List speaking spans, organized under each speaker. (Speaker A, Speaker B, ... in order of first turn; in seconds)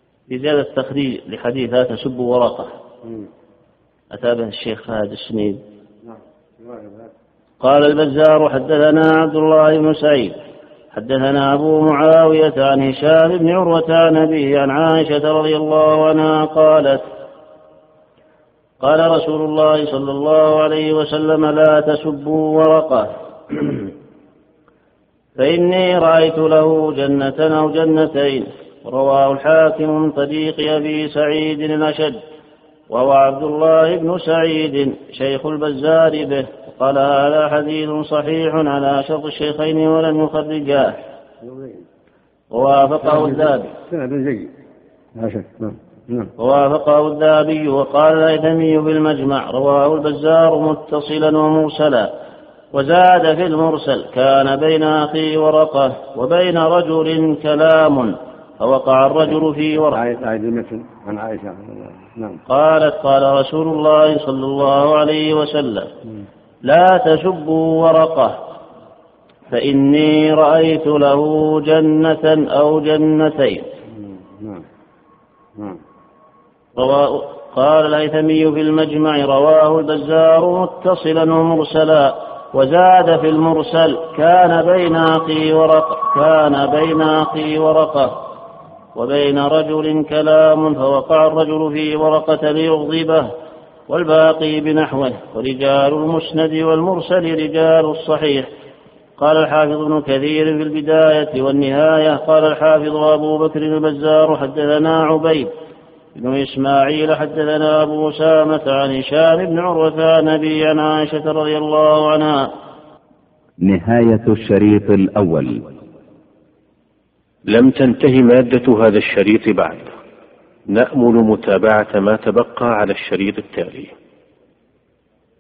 Speaker A: 0.3-2.7, 4.1-5.6, 7.6-10.4, 10.9-17.1, 18.8-23.1, 25.4-32.2, 32.9-41.0, 42.5-43.7, 46.4-52.1, 52.7-60.0, 62.5-65.9, 66.7-68.4, 69.5-73.7, 76.8-88.2, 89.0-93.3, 93.9-98.5, 99.2-105.5, 106.2-112.5
Speaker B: 6.1-7.1, 41.4-41.9, 43.0-44.5, 45.1-46.3, 59.9-62.4, 74.4-74.6
Speaker C: 113.6-115.7
Speaker D: 117.5-119.9, 120.7-123.9